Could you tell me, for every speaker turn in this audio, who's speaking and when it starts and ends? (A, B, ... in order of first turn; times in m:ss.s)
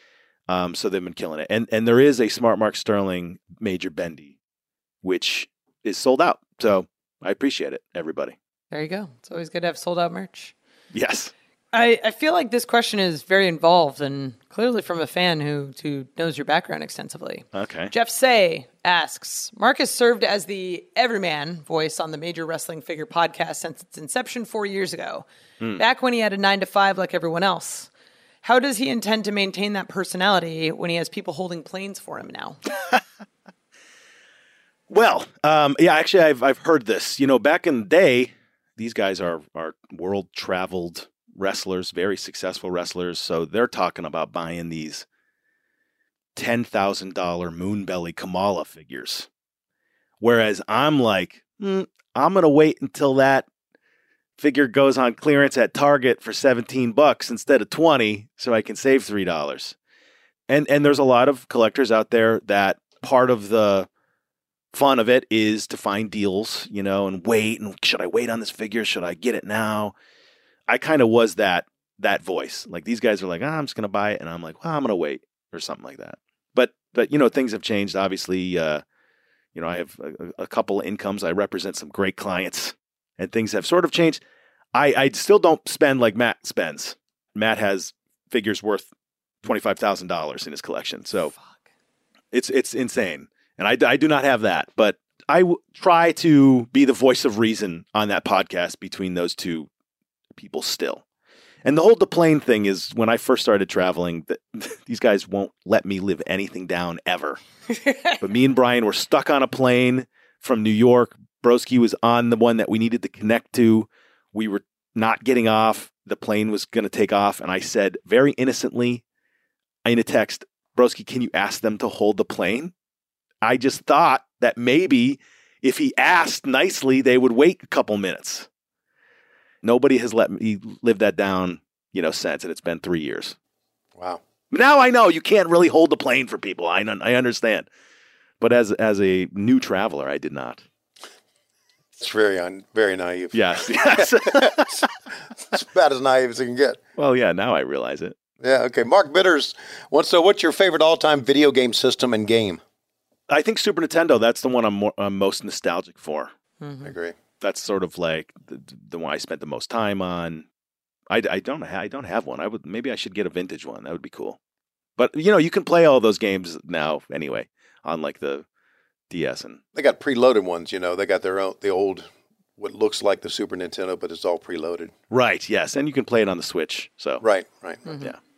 0:00.5-0:04.4 A
0:05.0-0:08.4 A
0:08.7-0:10.5 B
0:10.9-0:11.3 A
0:11.7-0:25.3 B
0:17.5-0:17.9 A
0:25.8-0:27.9 B
0:28.4-0:32.6 B
0:34.9-0:45.0 A
0:46.4-0:49.3 A
0:50.2-0:53.4 A
0:54.4-0:59.8 A
1:00.5-1:03.9 A
1:04.7-1:09.9 A
1:10.7-1:18.8 A
1:19.6-1:24.2 A
1:24.7-1:28.9 A
1:29.4-1:31.3 A
1:31.3-1:31.6 B
1:32.3-1:39.7 A
1:40.3-1:41.0 A
1:41.6-1:47.4 A
1:47.7-1:48.2 B
1:48.2-1:59.0 A
1:59.8-2:02.7 A
2:03.4-2:08.5 A
2:09.6-2:13.4 A
2:14.0-2:14.2 C
2:14.5-2:17.7 A
2:18.4-2:20.6 A
2:22.0-2:24.9 C
2:23.3-2:24.9 A
2:25.4-2:26.8 C
2:27.0-2:28.2 A
2:28.4-2:32.6 C
2:33.3-2:36.3 A
2:36.6-2:36.9 B
2:36.8-2:37.2 C
2:37.4-2:40.5 A
2:41.1-2:44.4 A
2:45.0-2:48.4 A
2:49.1-2:49.6 A
2:49.7-2:54.9 C
2:55.1-2:57.2 A
2:57.2-2:57.8 C
2:57.8-2:58.1 B